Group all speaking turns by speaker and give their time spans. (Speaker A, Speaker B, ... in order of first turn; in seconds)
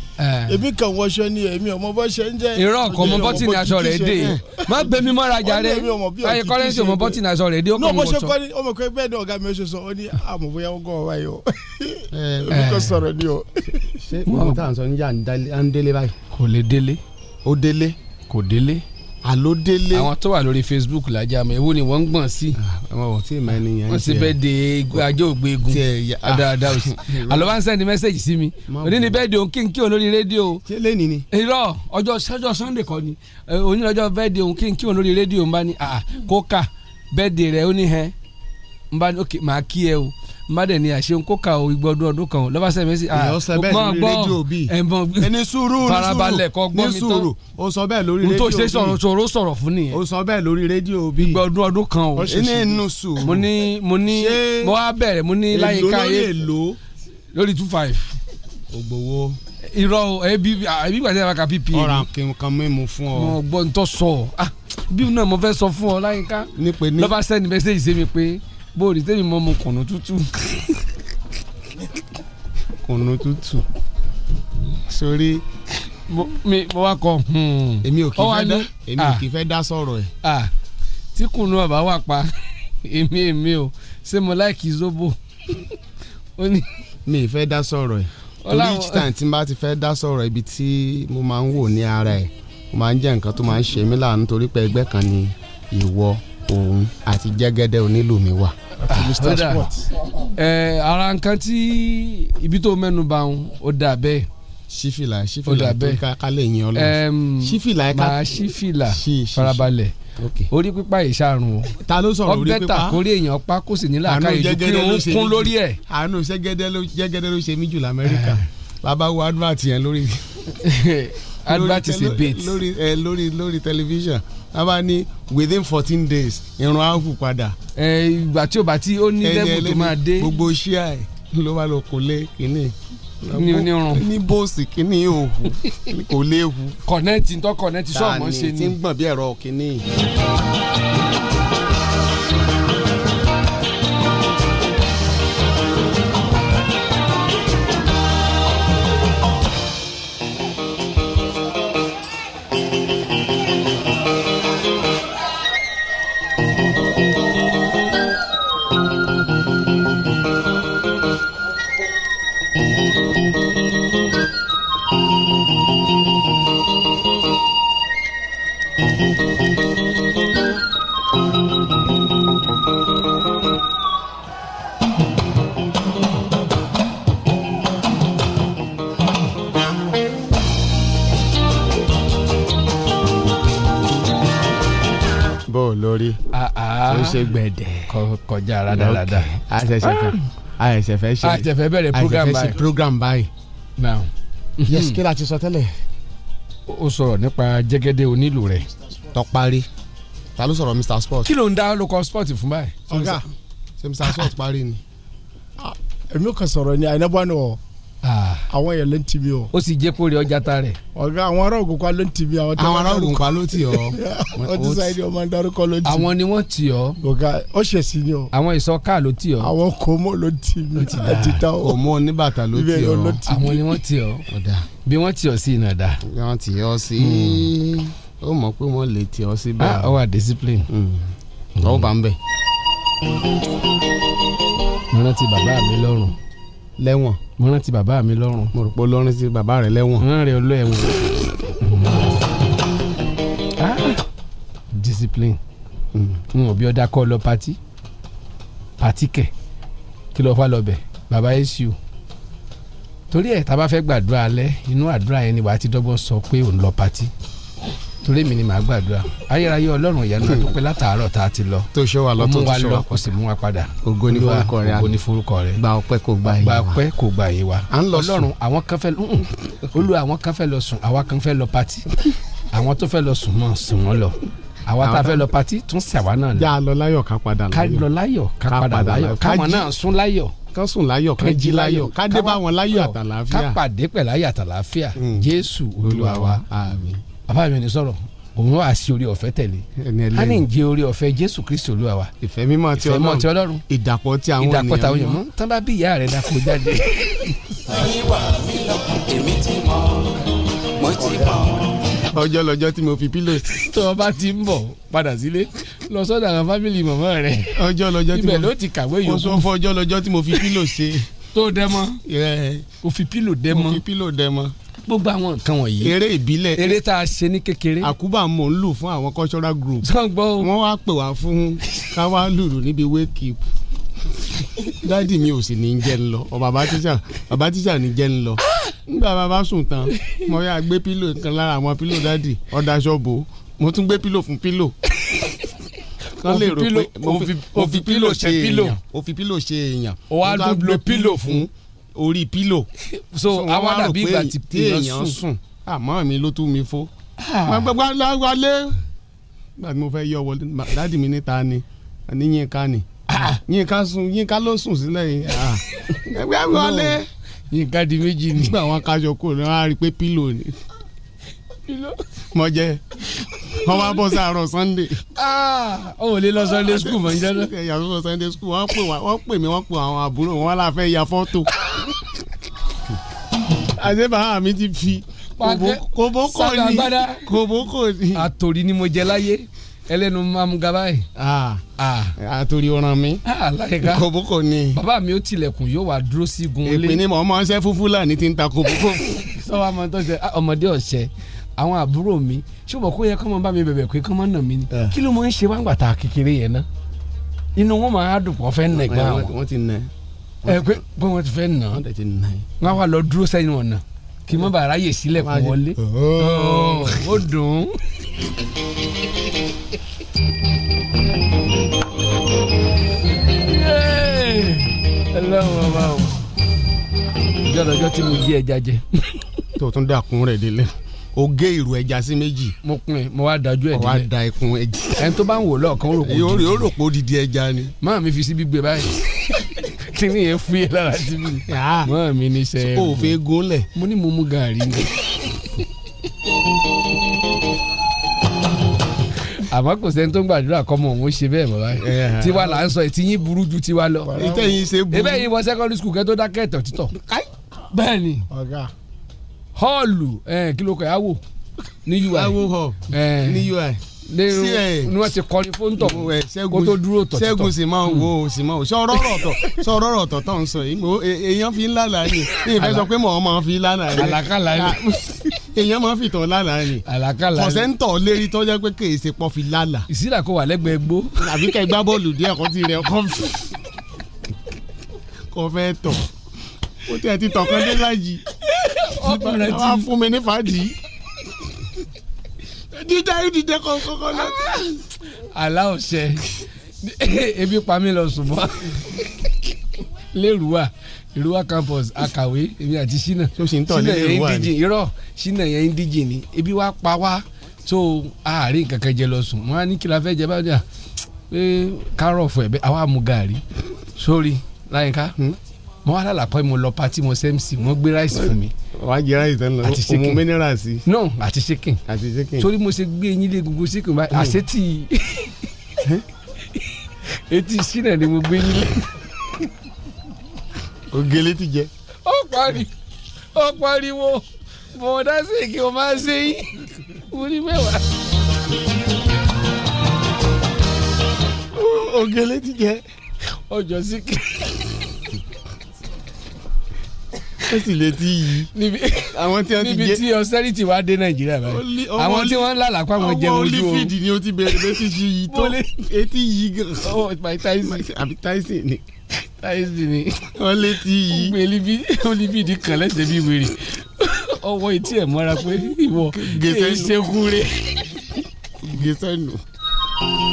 Speaker A: 0.2-0.6, 2.6-8.3, 12.5-13.0, 14.3-14.6, 16.3-17.0, 18.3-18.8, 19.9-22.6, 23.9-30.6, 31.3-38.1, 38.9-47.3, 48.2-50.0, 51.2-56.3, 57.3-58.1, 59.7-62.1, 63.1-70.5, 76.1-79.2, 80.2-80.5, 81.1-82.3, 82.8-85.2, 86.4-86.7, 88.4-89.1, 98.9-99.6, 100.4-104.3, 105.5-106.0, 106.8-109.9, 110.5-111.7, 112.3-115.8, 118.1-118.4, 120.6-122.6, 127.8-130.3, 133.3-134.1, 136.8-138.8, 186.3-187.3, 187.9-189.3, 189.8-190.1, 191.2-192.6, 193.8-195.0, 196.7-198.7, 201.3-202.8, 208.0-208.5, 209.5-210.8, 215.8-217.0, 218.3-219.5, 220.8-221.4, 223.3-224.2, 224.9-226.0, 227.0-227.5, 229.6-230.7, 231.6-231.9, 234.9-236.2, 237.4-238.5, 240.0-242.0, 243.6-244.0, 244.7-245.4, 246.3-247.6, 248.8-249.3, 250.2-251.8, 253.1-257.1, 258.0-265.6, 266.3-271.9, 272.5-276.5, 277.5-280.4, 281.2-286.4, 287.3-292.1, 292.8-293.6, 294.4-297.3, 303.6-307.6, 308.1-309.5, 311.3-312.0, 312.8-313.8, 314.9-316.0, 316.6-317.9, 319.8-320.5, 336.2-338.8, 340.1-341.5, 342.9-345.2, 347.2-347.7, 353.1-353.4, 356.5-357.0, 357.5-358.6, 361.7-362.0, 365.2-367.5, 375.4-377.3, 378.1-381.1, 381.8-382.1, 383.2-384.1, 384.7-387.0, 389.2-396.7, 397.6-399.3, 400.5-401.8, 402.6-407.7, 413.5-416.2, 417.4-418.8, 422.6-424.1, 425.0-426.7, 427.8-429.1, 429.6-433.2, 433.7-434.9, 439.5-444.1, 444.9-446.9, 447.7-448.3, 449.6-451.2, 451.9-452.4, 452.9-453.5, 454.1-458.1, 462.5-462.9, 463.9-464.8, 466.9-467.7, 469.9-471.2, 478.5-479.9, 484.2-484.6, 485.3-486.2, 486.8-488.6, 490.1-500.6, 501.3-503.4, 504.0-505.1, 505.9-508.5, 509.6-510.2, 510.9-511.8, 512.4-515.2, 517.3-518.8, 522.1-522.7, 523.4-526.5, 527.1-527.8, 533.5-534.6, 538.5-543.9, 545.3-545.8, 546.8-547.9, 549.4-550.3, 551.1-557.7
Speaker B: 0.5-7.2, 7.8-13.6, 98.9-99.8, 202.9-203.2, 205.6-207.6, 208.5-209.5, 211.0-216.1, 217.0-218.3, 219.4-221.8, 222.5-223.6, 444.1-444.6, 448.3-448.7
Speaker C: 12.1-12.6, 14.0-16.1, 17.4-18.0, 19.2-20.1, 22.6-24.3, 25.7-27.5, 28.7-29.2, 30.7-31.3, 43.1-49.0, 49.9-51.4, 52.2-53.5, 54.1-54.8, 55.5-56.8, 58.7-59.4, 61.7-63.4, 66.6-67.2, 72.9-73.7, 74.9-75.4, 77.8-80.1, 87.1-98.5, 104.7-109.7, 110.2-110.5, 111.8-113.0, 114.1-120.2, 121.5-127.5, 129.2-136.8, 137.9-139.8, 185.5-186.2, 186.9-187.9, 188.7-193.3, 194.7-195.7, 199.1-199.7, 200.4-201.3, 202.9-203.2, 203.8-204.8, 212.6-215.0, 221.6-223.2, 224.3-224.7, 226.1-229.9, 230.7-231.1, 231.6-232.2, 236.8-237.2, 238.5-240.1, 245.9-246.2, 261.7-263.1, 263.8-264.9, 265.6-266.8, 267.7-268.3, 274.8-275.3, 276.4-277.9, 278.5-279.7, 280.5-283.6, 285.0-285.3, 285.8-287.0, 289.8-290.4, 292.2-295.2, 302.1-303.7, 307.6-308.5, 309.1-311.1, 312.1-312.7, 313.5-314.5, 315.8-316.8, 317.8-319.9, 320.4-323.4, 324.8-334.8, 336.2-342.7, 343.3-346.9, 347.4-348.8, 349.6-357.1, 358.3-360.6, 362.3-362.8, 363.6-365.0, 366.6-371.5, 373.8-378.2, 381.2-381.6, 382.2-383.2, 383.8-384.8, 386.6-389.3, 398.9-399.9, 400.4-400.7, 401.7-402.6, 405.2-407.0, 419.6-422.6, 423.7-425.0, 426.0-427.7, 431.5-431.9, 432.6-433.7, 441.8-442.6, 444.2-445.3, 446.9-447.3, 452.1-455.1, 455.8-466.8, 467.4-469.9, 471.2-473.5, 475.3-476.1, 476.9-478.2, 479.0-480.8, 482.7-484.8, 493.4-494.5, 508.1-510.8, 511.9-512.5, 514.1-514.4, 520.9-521.7, 531.5-532.8, 537.5-538.5, 539.1-540.0, 541.5-547.0, 547.6-548.8, 550.4-551.4, 556.1-557.1, 558.6-559.4